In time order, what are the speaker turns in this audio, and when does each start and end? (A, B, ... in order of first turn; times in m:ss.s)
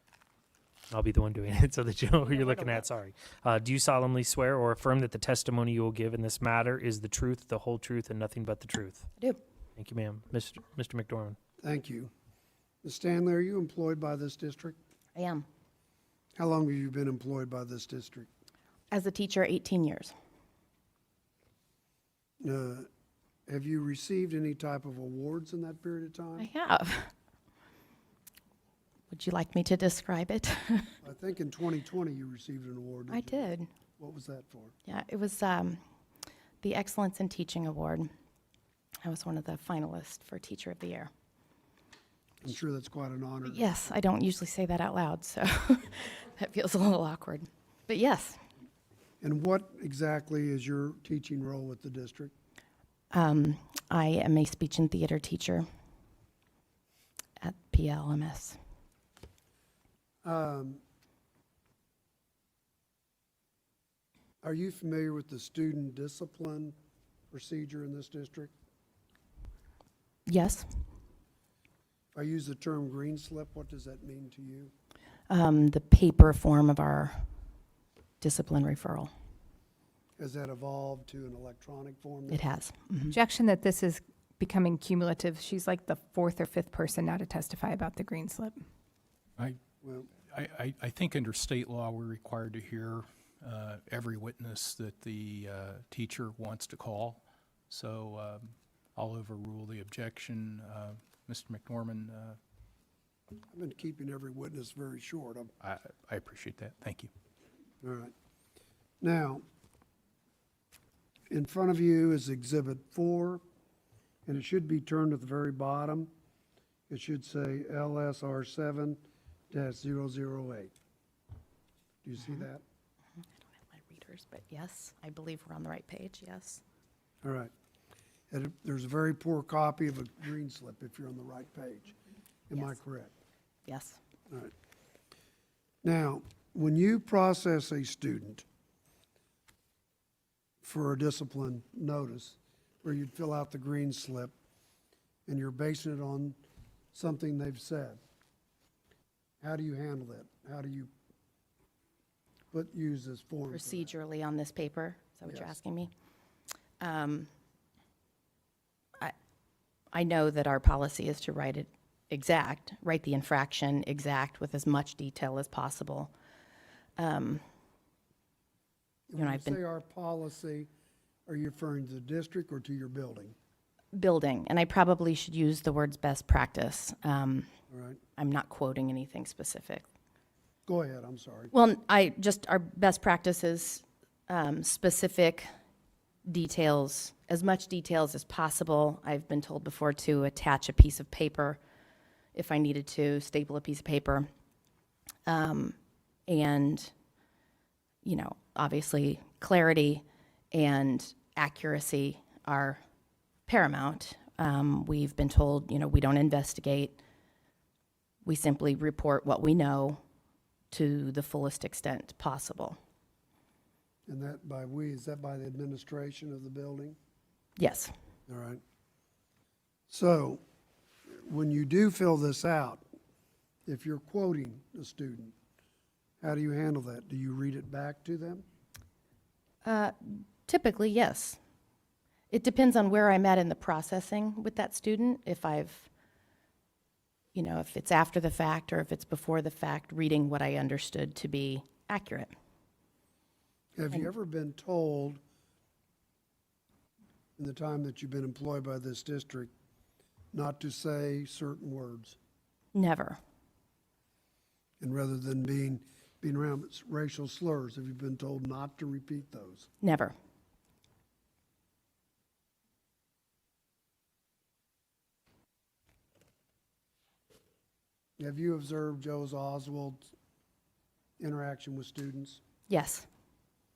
0:00.9-0:09.1 A
0:02.2-0:02.9 B
0:09.8-0:11.4 A
0:11.6-0:12.1 C
0:12.8-0:14.8 C
0:15.2-0:15.4 B
0:16.4-0:18.3 C
0:18.9-0:20.1 B
0:22.4-0:22.9 C
0:23.5-0:26.5 C
0:26.4-0:27.1 B
0:29.1-0:31.0 B
0:31.0-0:34.7 C
0:33.1-0:33.7 B
0:34.9-0:35.8 B
0:36.6-0:38.1 B
0:39.0-0:41.1 B
0:42.4-0:43.7 C
0:43.4-0:48.4 B
0:49.2-0:52.3 C
0:53.1-0:55.7 B
0:57.4-0:58.6 B
1:00.2-1:00.8 C
1:04.4-1:06.8 C
1:07.3-1:08.5 C
1:10.3-1:10.8 B
1:12.1-1:14.7 C
1:15.3-1:17.3 B
1:18.2-1:19.1 B
1:20.2-1:22.5 C
1:22.3-1:23.2 B
1:23.2-1:28.6 D
1:29.8-1:30.1 C
1:30.2-1:42.4 E
1:43.5-1:45.5 C
1:45.6-1:47.1 E
1:47.8-1:48.1 C
1:49.0-1:49.4 C
1:51.3-1:53.4 C
1:54.3-1:56.1 C
1:56.9-1:59.0 C
1:59.5-2:00.7 C
2:02.0-2:02.6 C
2:02.2-2:02.5 B
2:03.7-2:06.6 B
2:07.2-2:07.5 C
2:08.3-2:12.0 C
2:12.5-2:13.1 C
2:13.7-2:14.0 B
2:15.8-2:18.5 C
2:20.6-2:24.3 C
2:25.3-2:26.4 C
2:26.9-2:28.0 C
2:29.4-2:30.9 C
2:32.5-2:34.0 C
2:33.5-2:35.9 B
2:35.3-2:35.6 C
2:36.8-2:37.3 B
2:39.9-2:46.1 B
2:47.0-2:47.4 B
2:49.1-2:50.7 C
2:49.2-2:49.6 B
2:51.3-2:53.4 C
2:53.9-2:57.5 B
2:57.7-2:58.0 C
2:58.2-2:59.9 B
3:00.7-3:01.5 C
3:01.5-3:05.5 B
3:06.3-3:11.6 B
3:12.4-3:14.3 B
3:15.3-3:15.8 B
3:16.3-3:16.9 B
3:18.0-3:22.8 B
3:23.5-3:27.0 B
3:28.2-3:30.0 B
3:30.7-3:32.8 B
3:34.1-3:37.0 C
3:37.6-3:37.9 B
3:38.3-3:38.6 C
3:39.9-3:40.4 C
3:41.1-3:42.8 C
3:43.7-3:45.3 C
3:46.2-3:48.4 C
3:49.6-3:51.4 B
3:52.3-3:55.9 B
3:57.3-4:02.3 B
4:03.8-4:05.2 C
4:07.4-4:09.5 C
4:10.3-4:12.2 C
4:12.7-4:13.2 B
4:14.8-4:19.7 C
4:19.8-4:20.2 B
4:28.2-4:30.1 C
4:31.2-4:32.4 C
4:32.7-4:33.1 B